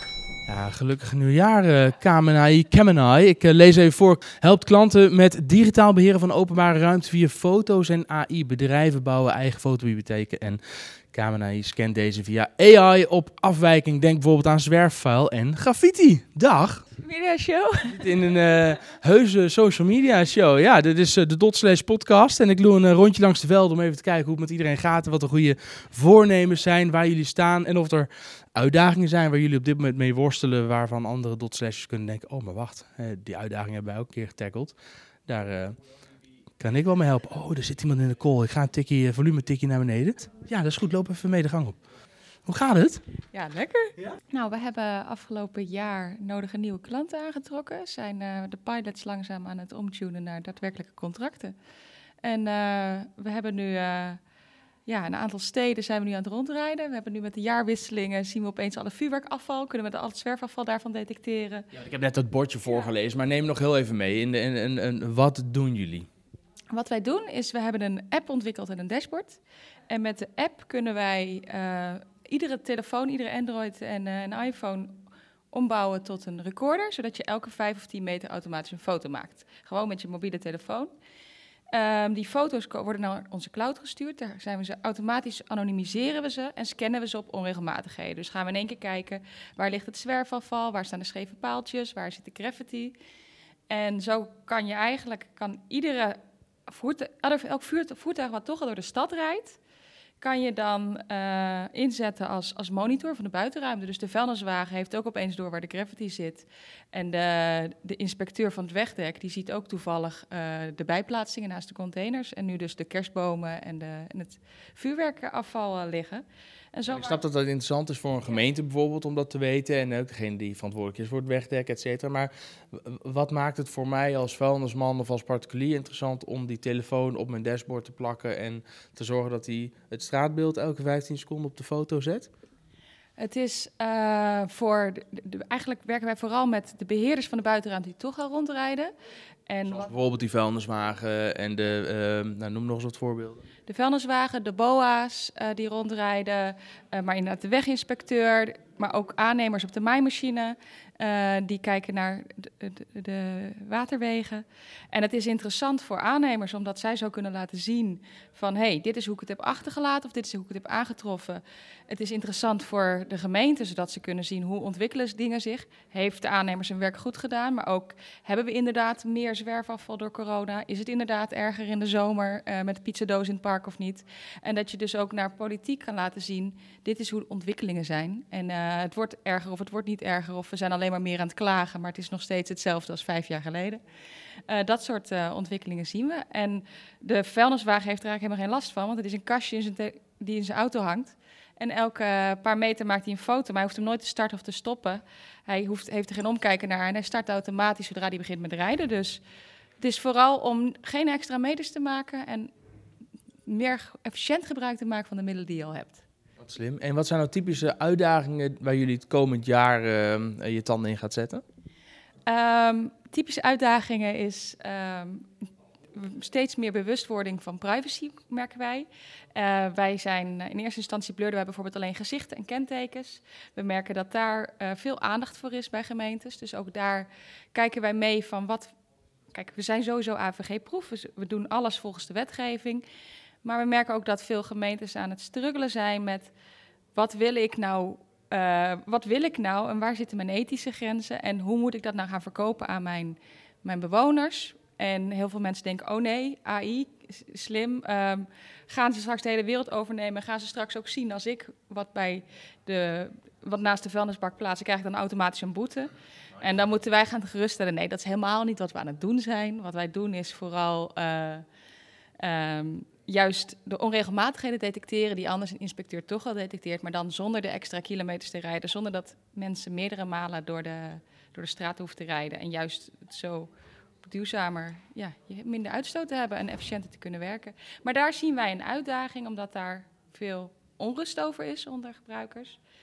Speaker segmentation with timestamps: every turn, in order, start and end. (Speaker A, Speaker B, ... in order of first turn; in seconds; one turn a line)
Speaker A: 0.5-10.6
Speaker A: 11.1-16.8
Speaker B: 17.0-18.1
Speaker A: 17.9-34.8
Speaker A: 35.3-35.8
Speaker A: 36.6-41.8
Speaker A: 42.5-43.0
Speaker B: 43.3-51.5
Speaker B: 52.2-54.2
Speaker B: 54.9-61.7
Speaker A: 61.7-66.1
Speaker B: 66.7-69.4
Speaker B: 69.9-75.0
Speaker B: 75.5-80.9
Speaker B: 81.7-93.0
Speaker B: 93.7-99.6
Speaker B: 100.2-117.1
Speaker A: 116.9-132.3
Speaker B: 133.2-138.9
Speaker B: 139.5-139.9
Speaker A: 139.7-143.4
Speaker B: 143.7-183.8
Speaker B: 184.5-199.2
Speaker B: 199.8-202.5
Speaker B: 203.5-206.0
Speaker A: 206.4-211.4
Speaker B: 212.3-215.3
Speaker B: 215.9-228.7
Speaker B: 229.3-232.8
Speaker B: 233.4-236.3
Speaker B: 236.9-261.4
Speaker B: 262.2-273.5
Speaker B: 274.0-282.6